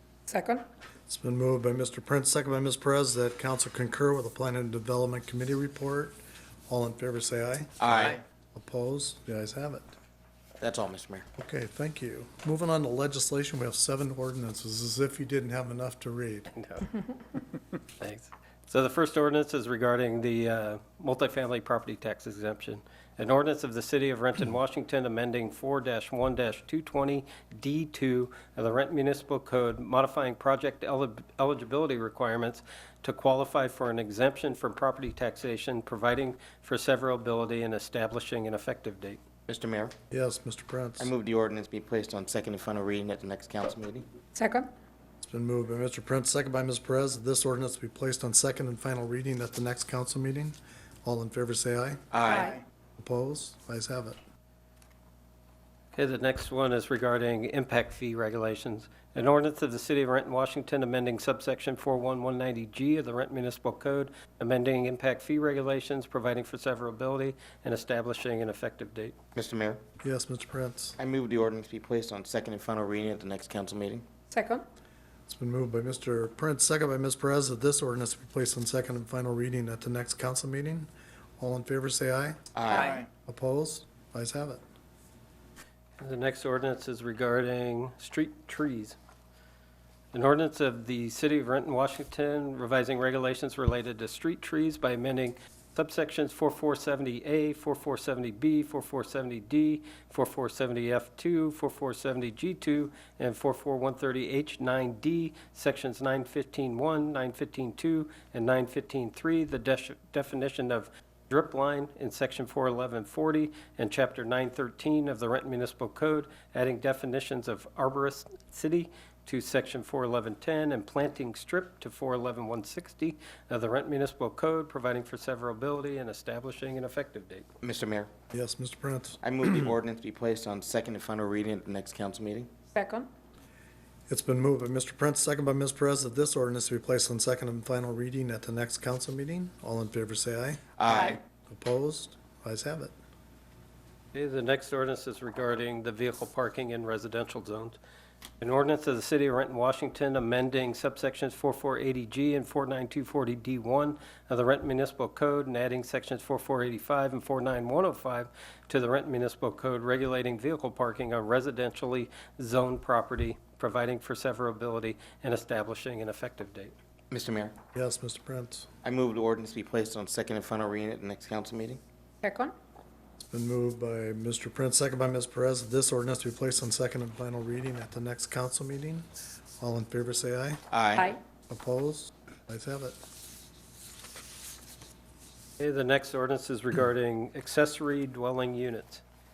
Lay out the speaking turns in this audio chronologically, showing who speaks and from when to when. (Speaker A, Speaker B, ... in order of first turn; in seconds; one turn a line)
Speaker A: 0.3-0.6
Speaker B: 1.1-6.2
Speaker B: 6.7-9.9
Speaker C: 7.8-8.2
Speaker C: 10.6-11.3
Speaker B: 11.4-16.5
Speaker D: 16.6-17.4
Speaker D: 17.9-39.2
Speaker C: 39.5-40.0
Speaker B: 40.1-41.1
Speaker C: 41.0-44.1
Speaker A: 44.4-44.7
Speaker B: 45.2-52.1
Speaker C: 52.1-52.6
Speaker A: 52.3-52.6
Speaker B: 53.0-54.2
Speaker D: 55.9-69.2
Speaker C: 69.4-69.8
Speaker B: 70.0-71.0
Speaker C: 71.0-74.0
Speaker A: 74.3-74.6
Speaker B: 75.3-82.5
Speaker C: 82.5-83.1
Speaker A: 82.7-83.0
Speaker B: 83.2-84.6
Speaker D: 86.0-89.0
Speaker D: 90.1-127.5
Speaker C: 127.6-128.1
Speaker B: 128.3-129.2
Speaker C: 129.2-132.5
Speaker A: 132.7-133.1
Speaker B: 134.1-140.7
Speaker C: 140.8-141.2
Speaker B: 141.5-142.9
Speaker D: 144.1-147.8
Speaker D: 148.4-166.7
Speaker C: 167.1-167.6
Speaker B: 167.8-168.7
Speaker C: 168.8-171.8
Speaker A: 172.2-172.5
Speaker B: 173.3-179.1
Speaker B: 179.6-180.6
Speaker C: 180.7-181.2
Speaker B: 181.5-183.0
Speaker D: 185.6-189.0